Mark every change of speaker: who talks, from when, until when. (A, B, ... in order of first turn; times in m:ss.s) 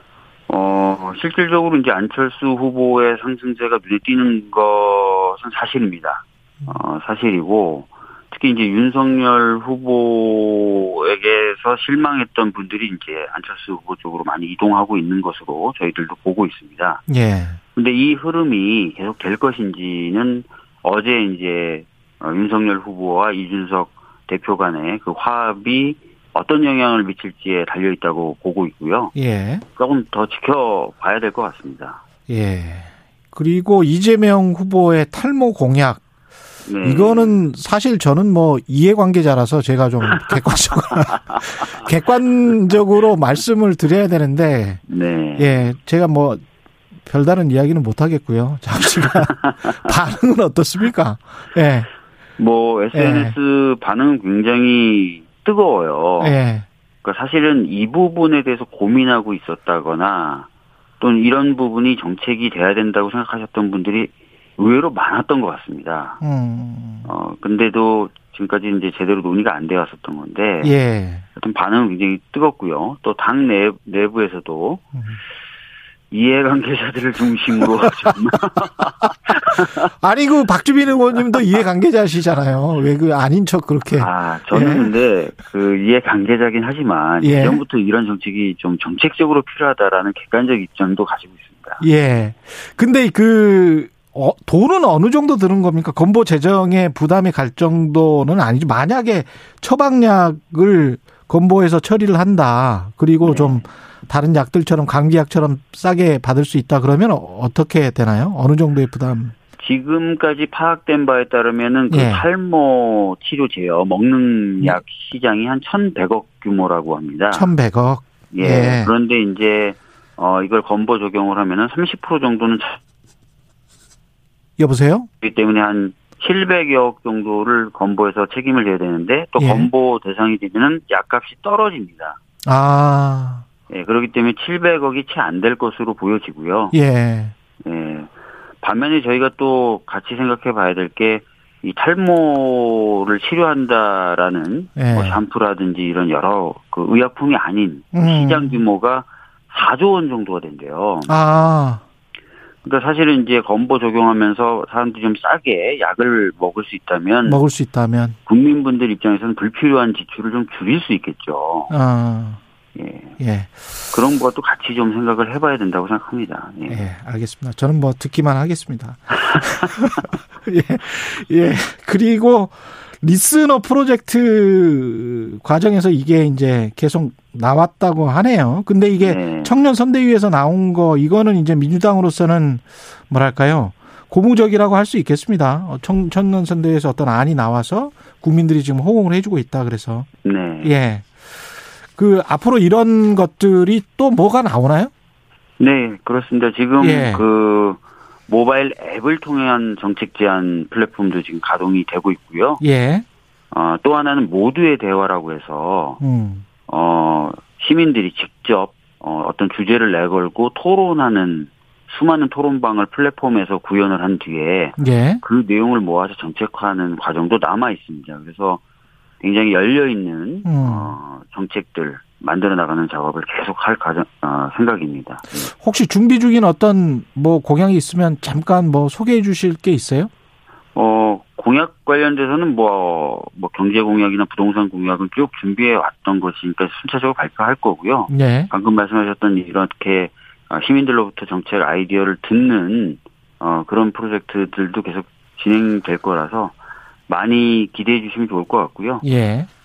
0:00.5-0:17.0 A
0:17.1-0:17.6 B
0:17.7-0:29.2 A
0:29.2-0:29.6 B
0:29.7-0:32.0 A
0:32.3-0:36.0 B
0:36.6-0:37.4 A
0:36.8-0:44.8 B
0:40.1-0:40.4 A
0:41.1-0:41.7 A
0:44.9-0:45.7 A
0:45.4-0:46.4 B
0:47.0-0:51.9 B
0:48.8-0:49.9 A
0:52.4-0:56.4 A
0:52.9-0:53.3 B
0:56.2-0:56.6 B
0:57.0-1:00.5 A
1:01.0-1:06.2 A
1:06.2-1:07.1 B
1:07.0-1:10.7 A
1:10.6-1:11.2 B
1:11.4-1:14.8 A
1:16.1-1:19.8 A
1:20.0-1:24.9 B
1:23.9-1:31.8 A
1:27.2-1:27.6 B
1:31.8-1:49.3 B
1:43.2-1:43.7 A
1:49.6-1:57.5 A
1:51.9-1:52.2 B
1:57.3-1:58.9 B
1:58.3-2:02.8 A
2:04.6-2:05.1 B
2:05.2-2:12.2 A
2:09.4-2:09.7 B
2:12.4-2:13.4 B
2:13.7-2:16.8 A
2:16.7-2:17.3 B
2:17.6-2:31.1 A
2:24.8-2:25.2 B
2:27.9-2:28.6 B
2:31.1-2:31.8 B
2:32.6-2:37.4 A
2:37.2-2:38.2 B
2:38.3-2:41.7 A
2:41.7-2:42.4 B
2:42.7-2:43.2 A
2:43.2-2:43.8 B
2:43.9-2:46.8 A
2:46.7-3:10.1 B
2:59.0-2:59.5 A
3:10.2-3:10.7 A
3:10.6-3:11.4 B
3:12.0-3:14.9 B
3:15.6-3:22.6 A
3:16.8-3:17.2 B
3:22.6-3:23.0 B
3:23.5-3:26.0 A
3:26.0-3:26.4 B
3:26.7-3:38.6 A
3:34.8-3:35.2 B
3:39.2-3:45.5 A
3:40.4-3:40.9 B
3:45.4-3:50.1 B
3:50.7-4:06.5 A
3:58.1-3:58.5 B
4:07.1-4:09.0 A
4:09.0-4:09.5 B